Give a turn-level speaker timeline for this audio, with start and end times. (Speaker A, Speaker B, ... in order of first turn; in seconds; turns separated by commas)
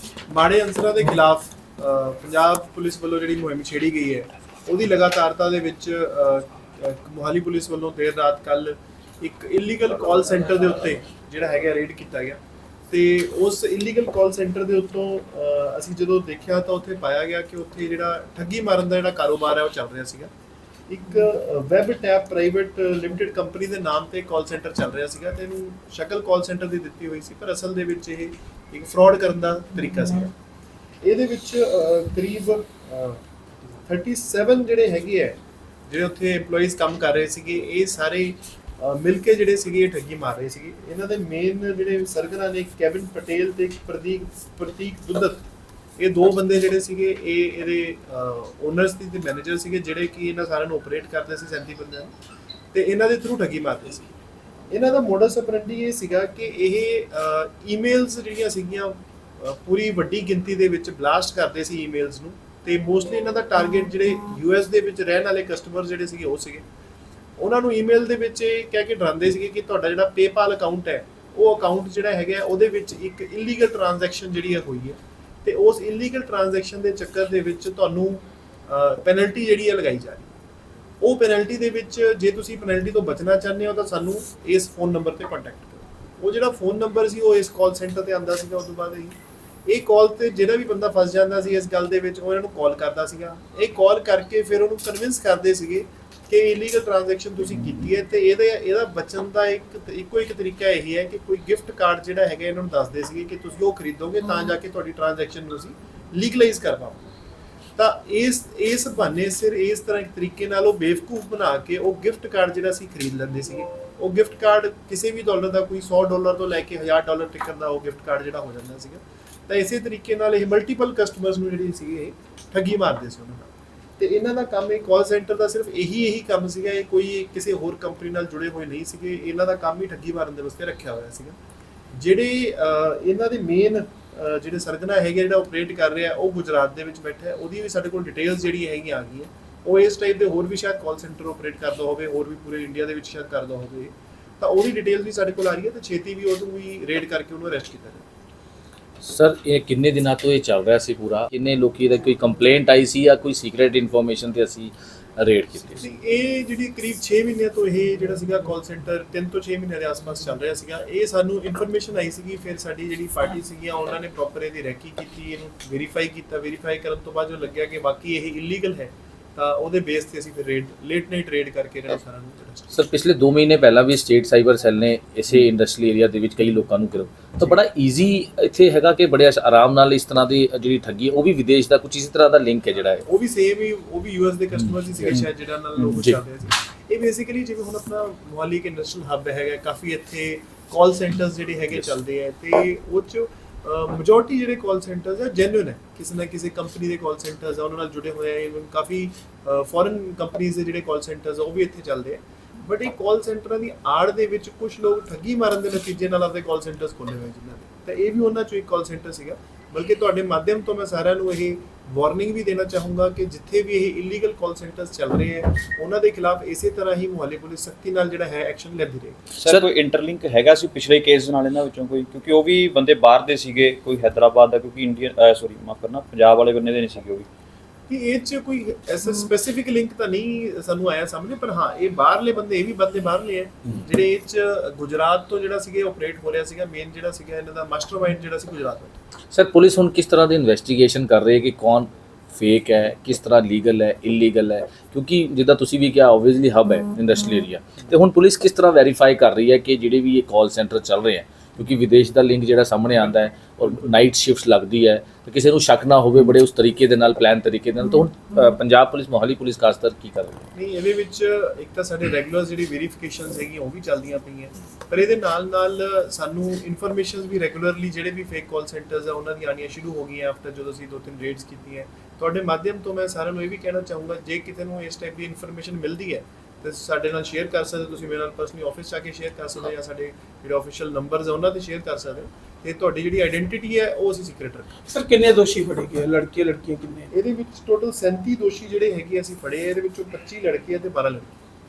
Speaker A: 0.3-20.3, Speaker A: 20.9-30.3, Speaker A: 31.0-33.2, Speaker A: 33.9-45.5, Speaker A: 46.0-52.1, Speaker A: 52.7-54.1, Speaker A: 54.7-66.6, Speaker A: 67.4-80.3, Speaker A: 81.0-107.0, Speaker A: 107.8-131.4, Speaker A: 131.9-148.0, Speaker B: 149.0-155.8, Speaker A: 155.8-172.7, Speaker B: 172.7-183.0, Speaker A: 183.0-219.2, Speaker C: 219.3-227.3, Speaker A: 227.9-238.9, Speaker B: 239.3-260.4, Speaker A: 260.5-284.7, Speaker D: 284.9-287.1, Speaker A: 287.1-291.4